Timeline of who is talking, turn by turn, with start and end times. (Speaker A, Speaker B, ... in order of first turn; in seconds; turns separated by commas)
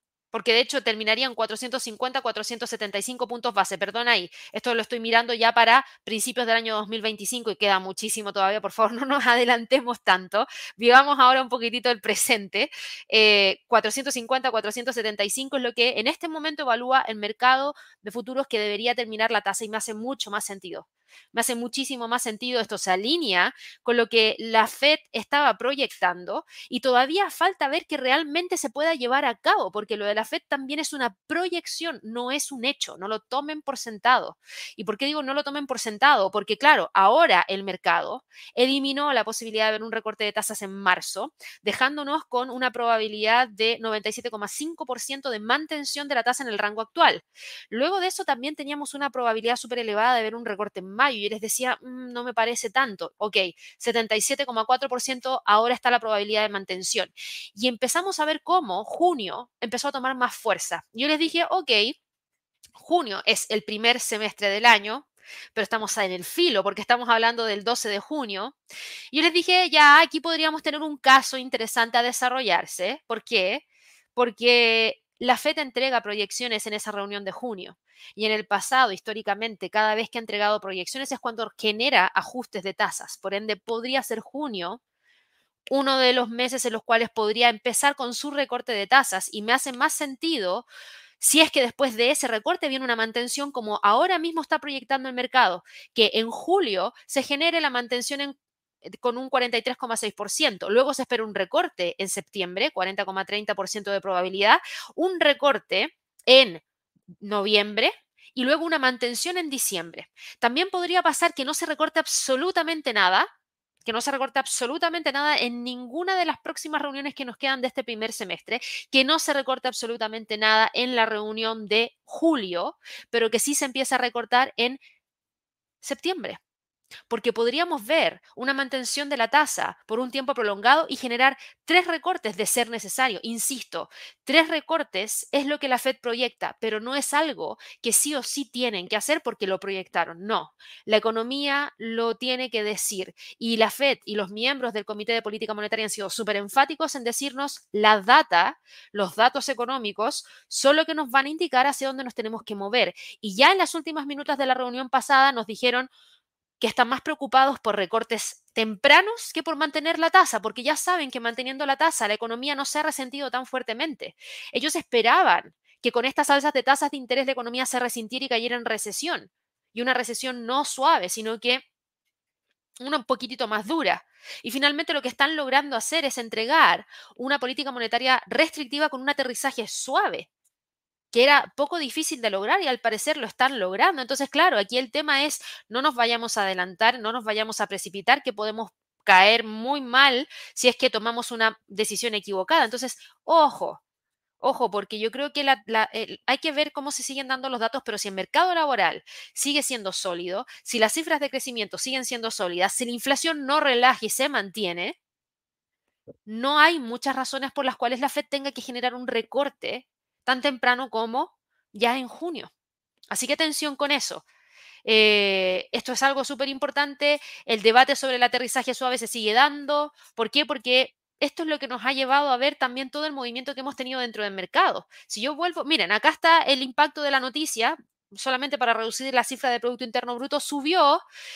Speaker A: 0.3-62.0, Speaker A: 62.8-68.5, Speaker A: 69.1-73.6, Speaker A: 74.2-84.8, Speaker A: 85.7-90.7, Speaker A: 91.2-98.3, Speaker A: 99.0-106.6, Speaker A: 107.2-113.3, Speaker A: 113.8-124.8, Speaker A: 125.8-126.4, Speaker A: 127.1-155.9, Speaker A: 156.6-171.6, Speaker A: 172.8-180.3, Speaker A: 181.1-193.8, Speaker A: 194.4-204.9, Speaker A: 206.3-212.5, Speaker A: 213.1-214.2, Speaker A: 214.8-231.0